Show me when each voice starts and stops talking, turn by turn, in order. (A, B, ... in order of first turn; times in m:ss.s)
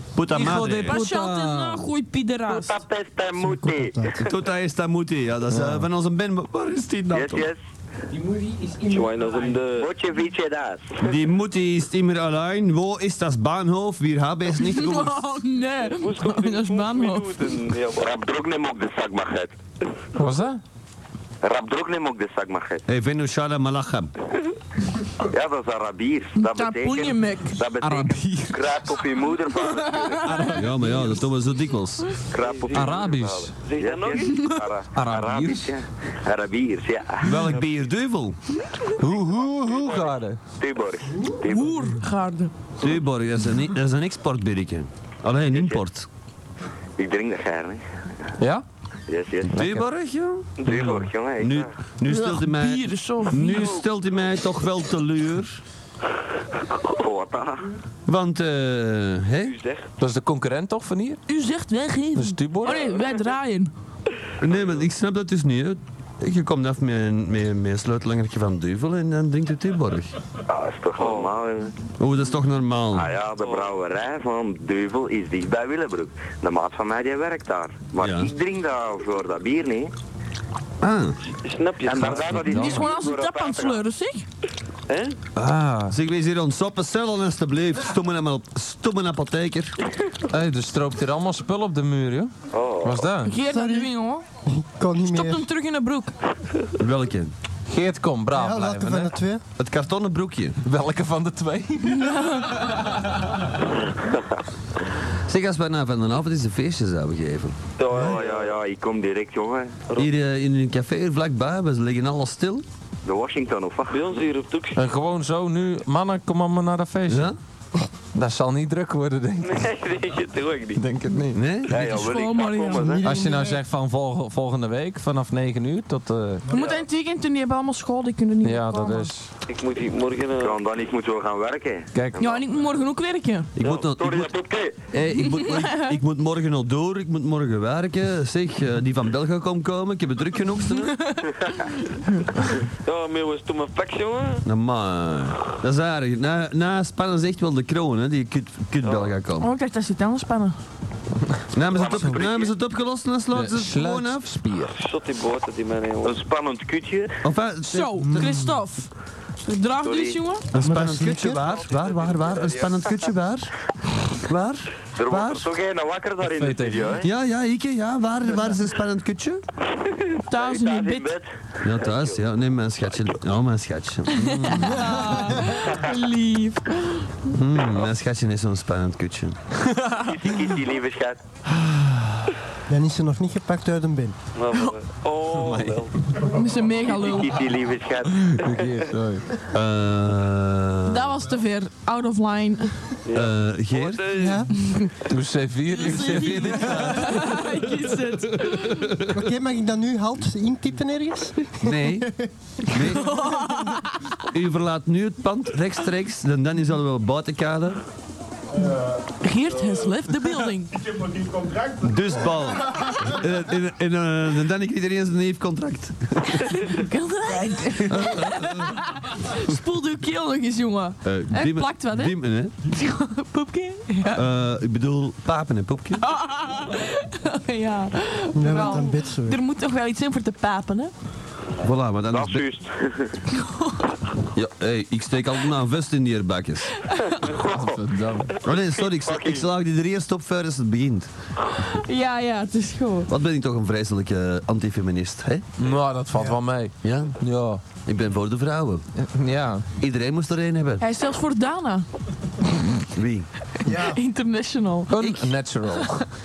0:00.2-0:01.0 A
0:00.3-0:02.8 B
0:00.4-0:01.9 C
0:02.5-0:04.2 D
0:03.4-0:04.3 E
0:04.2-0:07.5 A
0:05.5-0:05.9 C
0:07.1-0:07.6 D
0:08.1-0:09.6 C
0:08.9-0:09.9 F
0:09.8-0:11.1 D
0:11.0-0:15.2 A
0:14.6-0:17.6 B
0:15.8-0:18.2 F
0:18.0-0:19.5 D
0:20.2-0:20.6 C
0:21.4-0:22.8 D
0:22.9-0:24.1 A
0:25.2-0:30.4 D
0:26.4-0:28.6 B
0:29.8-0:30.7 B
0:30.3-0:31.2 C
0:30.6-0:32.1 A
0:32.3-0:33.1 D
0:32.4-0:34.4 F
0:32.7-0:33.5 C
0:33.8-0:37.4 D
0:34.2-0:34.7 B
0:34.9-0:35.7 C
0:37.2-0:38.4 A
0:39.0-0:40.4 C
0:39.6-0:42.0 D
0:41.4-0:42.5 B
0:42.8-0:46.1 A
0:45.5-0:45.8 D
0:47.0-0:47.8 D
0:48.4-0:48.6 C
0:49.1-0:49.6 D
0:49.5-0:50.8 A
0:49.5-0:49.8 C
0:50.6-0:51.7 D
0:50.7-0:51.1 F
0:51.4-0:55.6 A
0:52.0-0:53.8 B
0:56.8-0:57.7 D
0:58.1-0:59.6 A
0:59.4-0:59.9 F
1:00.0-1:01.2 C
1:01.3-1:03.7 B
1:02.2-1:02.9 C
1:02.7-1:03.2 F
1:04.4-1:10.2 A
1:04.4-1:04.9 F
1:10.5-1:11.7 D
1:11.0-1:11.3 F
1:12.0-1:13.1 A
1:12.9-1:19.9 D
1:13.4-1:13.8 F
1:18.0-1:18.3 A
1:20.8-1:21.2 A
1:21.4-1:22.4 F
1:21.8-1:23.8 D
1:22.0-1:22.9 C
1:22.4-1:24.3 B
1:24.9-1:25.2 F
1:25.4-1:29.8 A
1:25.6-1:25.9 C
1:30.3-1:33.4 C
1:32.5-1:33.0 F
1:33.2-1:34.2 B
1:33.5-1:33.9 E
1:34.5-1:35.5 E
1:35.0-1:36.1 B
1:36.8-1:37.3 A
1:37.7-1:39.2 C
1:38.3-1:39.4 E
1:39.6-1:40.6 A
1:40.6-1:42.1 C
1:41.9-1:42.7 B
1:45.3-1:47.6 A
1:47.8-1:48.6 F
1:47.9-1:49.8 D
1:50.0-1:52.6 A
1:53.0-1:54.0 D
1:53.9-1:54.8 F
1:54.8-1:57.3 C
1:57.1-1:57.4 A
1:58.1-1:59.7 C
1:59.5-2:00.8 F
2:00.8-2:01.4 C
2:01.3-2:01.8 A
2:01.7-2:03.0 F
2:01.8-2:03.0 D
2:01.8-2:03.0 B
2:02.8-2:03.6 E
2:03.0-2:06.5 C
2:06.5-2:09.1 B
2:06.5-2:06.8 F
2:08.4-2:09.3 C
2:09.5-2:10.6 F
2:10.4-2:12.4 D
2:11.9-2:12.2 C
2:12.2-2:13.5 B
2:13.6-2:14.3 A
2:13.6-2:13.9 F
2:13.8-2:14.9 D
2:14.9-2:21.0 A
2:15.2-2:16.0 B
2:20.8-2:21.2 B
2:22.8-2:24.4 F
2:24.4-2:29.5 A
2:28.8-2:29.1 F
2:29.4-2:30.6 B
2:31.5-2:34.3 A
2:31.7-2:32.5 D
2:33.3-2:34.8 C
2:34.8-2:36.2 F
2:36.0-2:37.1 D
2:37.2-2:38.3 A
2:37.6-2:40.5 B
2:39.8-2:40.2 F
2:40.5-2:43.5 A
2:40.6-2:41.4 E
2:41.5-2:43.0 F
2:44.2-2:45.5 A
2:45.0-2:47.1 D
2:46.2-2:47.0 C
2:47.0-2:49.4 A
2:50.3-2:51.1 B
2:50.3-2:52.1 D
2:51.6-2:54.8 A
2:54.2-2:57.2 B
2:57.3-2:59.4 A
2:59.6-3:00.1 C
3:00.0-3:01.2 D
3:01.5-3:02.3 A
3:02.7-3:04.2 E
3:04.4-3:06.0 F
3:05.3-3:05.8 C
3:06.2-3:07.4 B
3:07.0-3:08.6 D
3:08.2-3:09.3 C
3:09.5-3:11.2 A
3:10.9-3:13.0 B
3:13.1-3:14.5 F
3:13.1-3:14.2 A
3:14.1-3:14.5 E
3:14.5-3:14.9 B
3:15.1-3:17.2 C
3:15.7-3:19.0 B
3:18.5-3:19.1 A
3:19.1-3:22.3 E
3:21.6-3:22.1 A
3:22.7-3:23.2 A
3:22.7-3:24.1 B
3:24.3-3:27.8 A
3:29.1-3:30.8 B
3:31.7-3:36.5 A
3:36.3-3:44.2 B
3:37.8-3:38.8 A
3:41.0-3:42.6 A
3:44.1-3:46.0 A
3:46.0-3:50.9 B
3:48.4-3:49.4 E
3:51.6-3:52.5 A
3:52.1-3:53.2 D
3:53.3-3:53.9 B
3:54.3-3:56.7 A
3:56.9-3:57.2 B
3:57.4-3:57.6 D
3:57.4-3:58.3 C
3:58.4-4:01.1 A
3:58.8-3:59.5 D
4:01.6-4:03.1 B
4:03.1-4:05.4 A
4:05.6-4:07.6 C
4:06.1-4:06.4 E
4:06.8-4:07.2 A
4:07.8-4:08.8 A
4:09.0-4:09.7 C
4:09.8-4:10.9 A
4:10.8-4:11.9 B
4:13.0-4:13.3 A
4:13.6-4:14.0 E
4:13.7-4:15.0 B
4:14.9-4:16.0 C
4:15.0-4:15.3 A